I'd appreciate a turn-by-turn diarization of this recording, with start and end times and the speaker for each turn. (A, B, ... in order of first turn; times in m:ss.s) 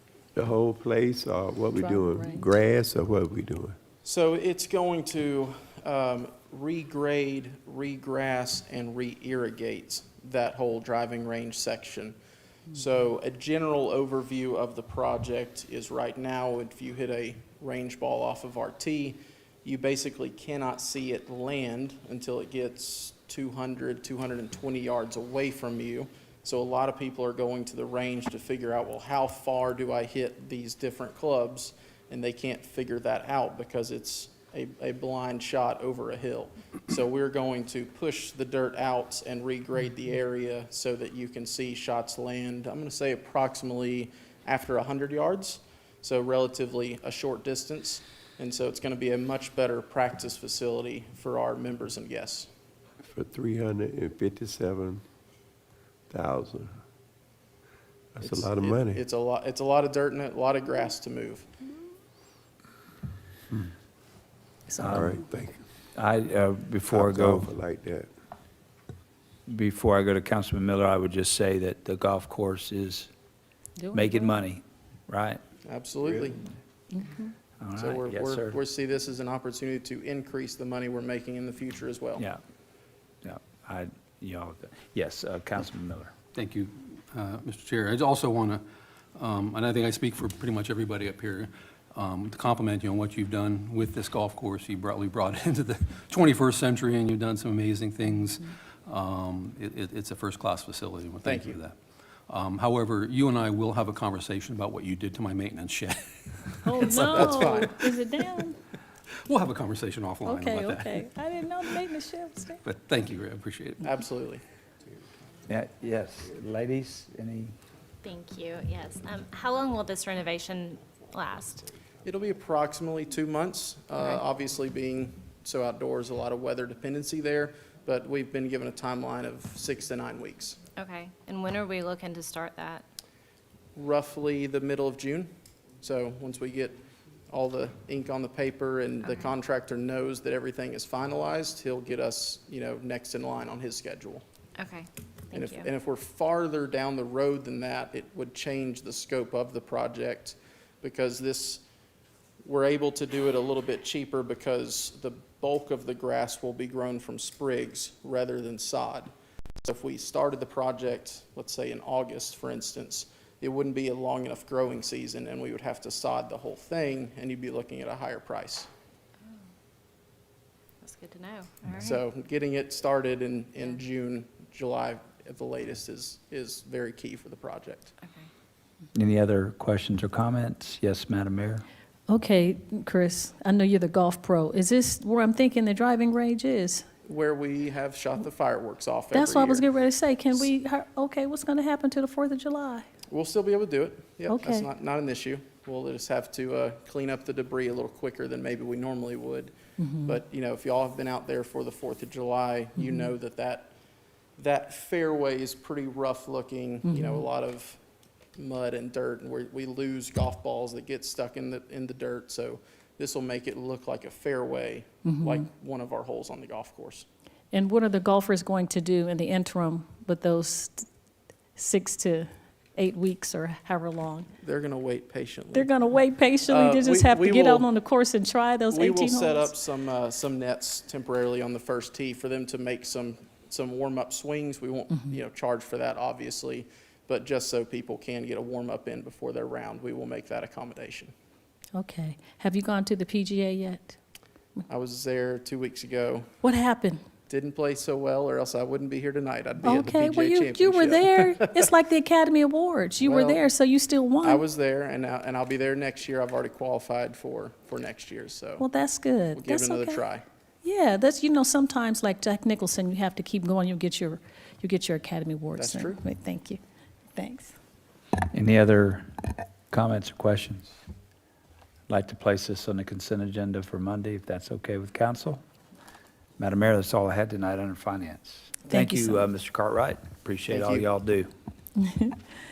0:00.3-0:03.8 A
0:01.8-0:02.4 B
0:04.0-0:12.2 C
0:12.7-0:52.5 C
0:53.0-0:55.0 A
0:56.1-0:56.7 A
0:58.2-0:59.0 A
0:58.2-1:01.5 C
1:04.7-1:05.0 B
1:04.8-1:05.6 A
1:04.8-1:05.2 D
1:06.0-1:07.5 D
1:06.9-1:08.1 A
1:09.5-1:13.1 D
1:13.8-1:14.3 B
1:13.9-1:15.4 D
1:15.6-1:16.4 C
1:16.9-1:17.3 B
1:17.6-1:18.6 D
1:17.8-1:22.2 C
1:23.2-1:26.1 D
1:26.3-1:28.6 E
1:29.1-1:41.8 E
1:41.2-1:41.6 C
1:42.3-1:47.8 E
1:46.6-1:48.6 B
1:46.8-1:47.8 C
1:49.2-1:51.0 E
1:50.2-1:52.6 B
1:52.6-1:53.9 E
1:53.8-1:54.4 C
1:55.5-1:57.5 D
1:58.0-2:01.7 F
2:02.0-2:10.6 C
2:10.8-2:12.8 F
2:13.7-2:15.3 C
2:15.8-2:24.2 C
2:19.0-2:19.3 F
2:24.6-2:25.7 F
2:25.3-2:31.6 C
2:32.4-2:39.1 C
2:39.6-2:48.7 C
2:50.8-2:52.0 F
2:51.8-2:57.9 C
2:58.0-2:58.3 F
2:58.9-3:01.6 D
3:02.1-3:06.8 B
3:07.0-3:09.7 C
3:09.1-3:12.8 B
3:13.1-3:23.7 C
3:14.2-3:14.7 B
3:19.8-3:20.2 B
3:22.8-3:23.1 B
3:24.4-3:27.8 C
3:26.8-3:27.2 B
3:28.4-3:37.1 C
3:35.0-3:35.5 B
3:37.5-3:40.9 B
3:41.6-3:44.3 B
3:44.4-3:45.7 C
3:45.5-3:49.5 B
3:46.4-3:47.7 C
3:48.7-4:01.1 C
3:54.9-3:55.2 B
4:01.8-4:04.0 B
4:04.7-4:06.3 C
4:06.4-4:07.0 B
4:07.3-4:11.7 C
4:09.6-4:14.4 B
4:13.0-4:13.4 C
4:14.2-4:18.6 C
4:18.6-4:20.0 B
4:19.3-4:20.2 C
4:20.6-4:26.6 B
4:25.6-4:26.0 C
4:27.1-4:27.5 B
4:28.2-4:30.7 D
4:31.9-4:35.4 D
4:36.4-4:41.3 D
4:38.7-4:39.2 B
4:40.5-4:40.9 C
4:41.8-4:42.2 B